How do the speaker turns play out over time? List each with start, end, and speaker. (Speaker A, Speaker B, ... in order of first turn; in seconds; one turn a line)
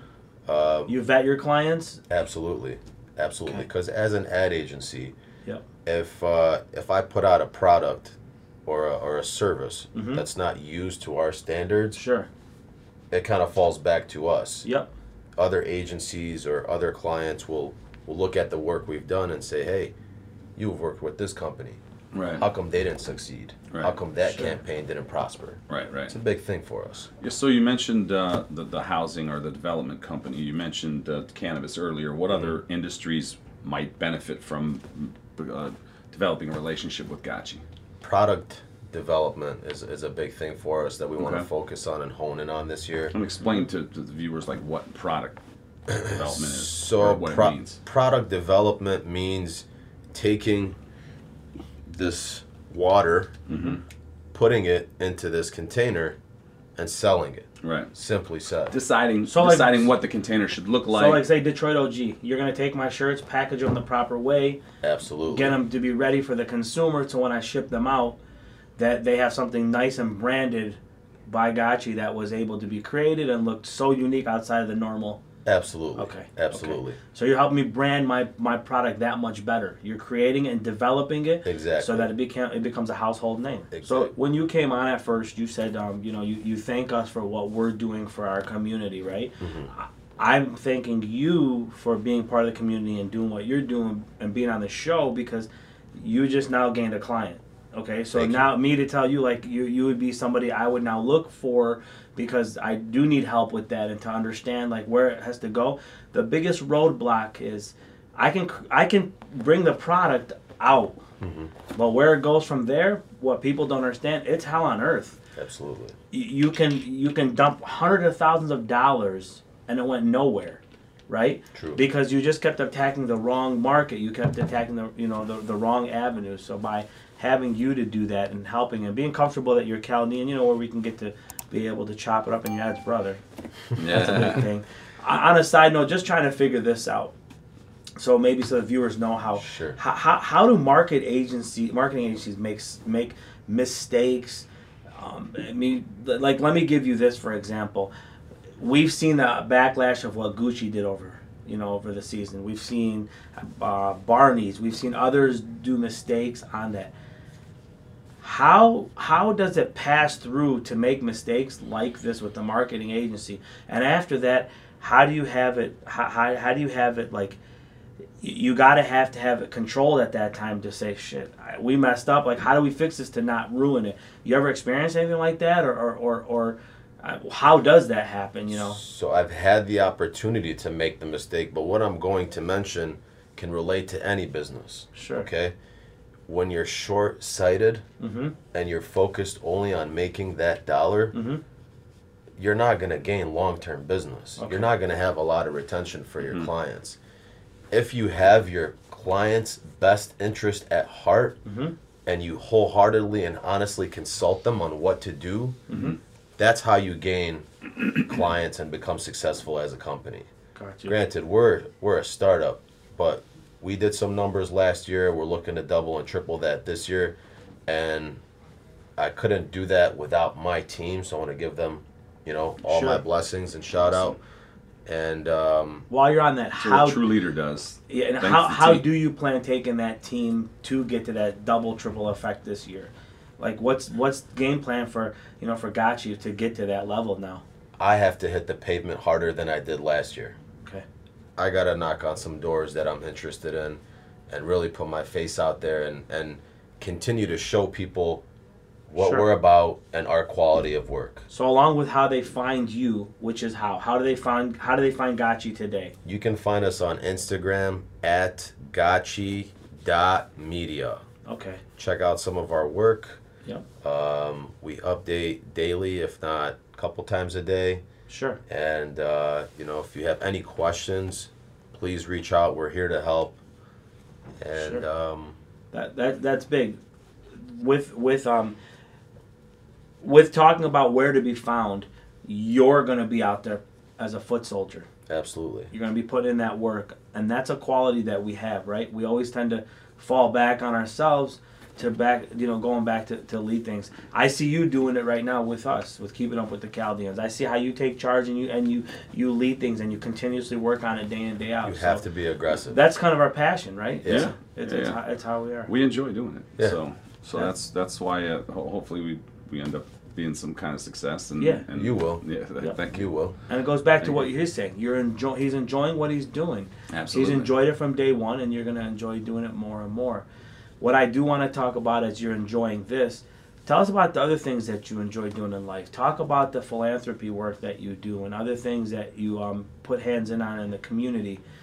Speaker A: 0.5-0.9
Speaker B: 0.9-2.0
Speaker A: 2.1-5.1
Speaker A: 5.8-12.0
Speaker B: 9.9-10.2
Speaker B: 11.9-12.3
Speaker A: 13.1-14.7
Speaker B: 14.6-14.9
Speaker A: 15.3-19.9
Speaker A: 20.6-21.8
Speaker C: 22.1-22.4
Speaker A: 22.4-27.1
Speaker B: 24.2-24.5
Speaker C: 25.7-26.1
Speaker C: 27.2-37.6
Speaker A: 32.3-32.6
Speaker A: 38.0-43.1
Speaker C: 41.2-41.5
Speaker C: 43.1-45.4
Speaker A: 45.9-50.8
Speaker C: 46.0-47.8
Speaker A: 51.9-53.4
Speaker C: 53.5-53.8
Speaker B: 53.5-53.8
Speaker A: 54.3-56.2
Speaker A: 56.8-58.8
Speaker C: 57.6-57.9
Speaker C: 58.7-61.2
Speaker B: 59.2-59.9
Speaker B: 60.9-64.6
Speaker A: 64.8-65.6
Speaker B: 65.3-68.2
Speaker B: 68.8-75.2
Speaker A: 75.4-77.0
Speaker B: 76.0-111.0
Speaker A: 81.4-82.1
Speaker A: 83.7-84.1
Speaker A: 89.4-89.7
Speaker A: 98.1-98.5
Speaker A: 111.2-111.5
Speaker B: 111.7-115.2
Speaker A: 115.3-115.9
Speaker B: 116.1-133.2
Speaker A: 121.5-121.8
Speaker C: 133.8-134.4
Speaker B: 133.8-137.1
Speaker B: 138.0-147.9
Speaker A: 139.3-139.8
Speaker B: 148.6-156.9
Speaker B: 158.2-167.4
Speaker B: 168.2-178.8
Speaker A: 178.5-185.5
Speaker B: 184.9-185.3
Speaker A: 186.3-187.8
Speaker B: 188.0-188.3
Speaker A: 188.5-191.1
Speaker B: 191.1-191.4
Speaker A: 192.4-197.0
Speaker B: 194.4-194.7
Speaker A: 197.7-201.4
Speaker B: 201.4-201.7
Speaker A: 202.1-205.6
Speaker B: 205.7-206.0
Speaker A: 206.4-207.4
Speaker A: 208.0-210.3
Speaker B: 210.6-210.9
Speaker A: 210.8-217.2
Speaker A: 217.7-218.2
Speaker A: 219.0-224.2
Speaker B: 222.6-223.0
Speaker A: 224.8-225.9
Speaker B: 225.9-227.0
Speaker C: 226.6-228.8
Speaker B: 227.9-237.4
Speaker A: 237.8-240.3
Speaker A: 241.4-248.2
Speaker A: 248.9-251.2
Speaker B: 249.0-249.3
Speaker B: 251.3-255.9
Speaker A: 256.0-261.0
Speaker B: 261.2-261.6
Speaker A: 261.8-263.2
Speaker A: 263.8-267.8
Speaker B: 268.1-268.4
Speaker A: 268.5-273.4
Speaker A: 274.4-275.4
Speaker B: 274.6-274.8
Speaker B: 275.7-276.8
Speaker B: 277.3-278.6
Speaker B: 280.0-284.9
Speaker A: 285.1-285.7
Speaker B: 285.7-302.0
Speaker A: 301.6-302.8
Speaker B: 302.7-305.7
Speaker A: 304.0-304.3
Speaker C: 304.1-305.0
Speaker C: 305.7-313.1
Speaker B: 311.4-311.6
Speaker A: 311.7-312.2
Speaker A: 312.9-313.4
Speaker B: 313.5-320.2
Speaker C: 314.0-314.3
Speaker C: 316.9-317.5
Speaker B: 320.8-331.4